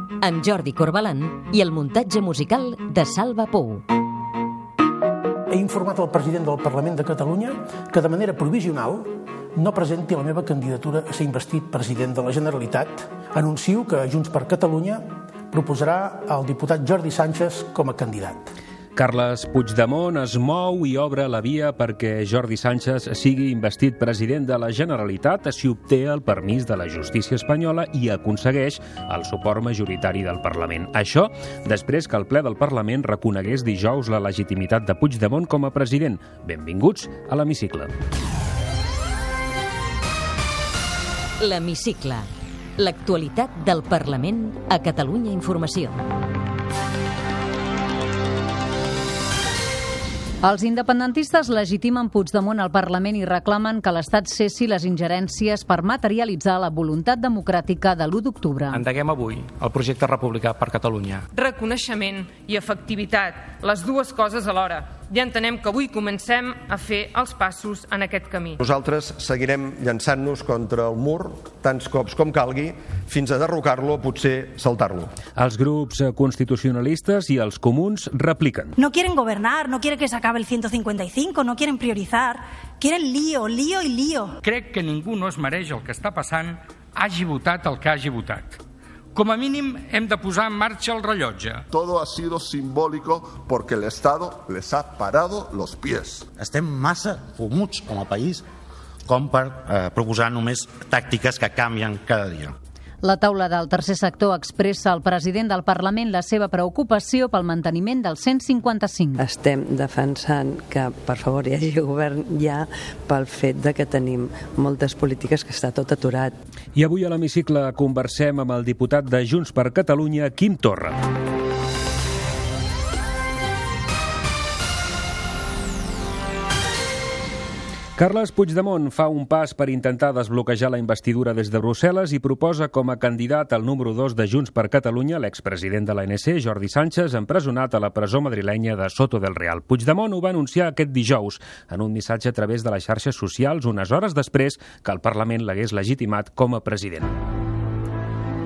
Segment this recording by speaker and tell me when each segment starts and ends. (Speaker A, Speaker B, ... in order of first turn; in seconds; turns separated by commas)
Speaker A: 0.2-3.9, Speaker B: 5.5-18.5, Speaker C: 19.0-37.9, Speaker A: 41.4-46.0, Speaker D: 50.4-58.8, Speaker E: 58.7-61.3, Speaker F: 61.3-68.6, Speaker G: 68.6-75.1, Speaker C: 75.4-78.7, Speaker H: 78.8-84.4, Speaker I: 84.4-88.6, Speaker I: 89.2-91.7, Speaker J: 91.7-96.3, Speaker K: 96.4-98.4, Speaker K: 99.1-102.6, Speaker D: 103.0-109.2, Speaker L: 109.2-116.3, Speaker C: 116.8-121.0, Speaker C: 128.0-147.2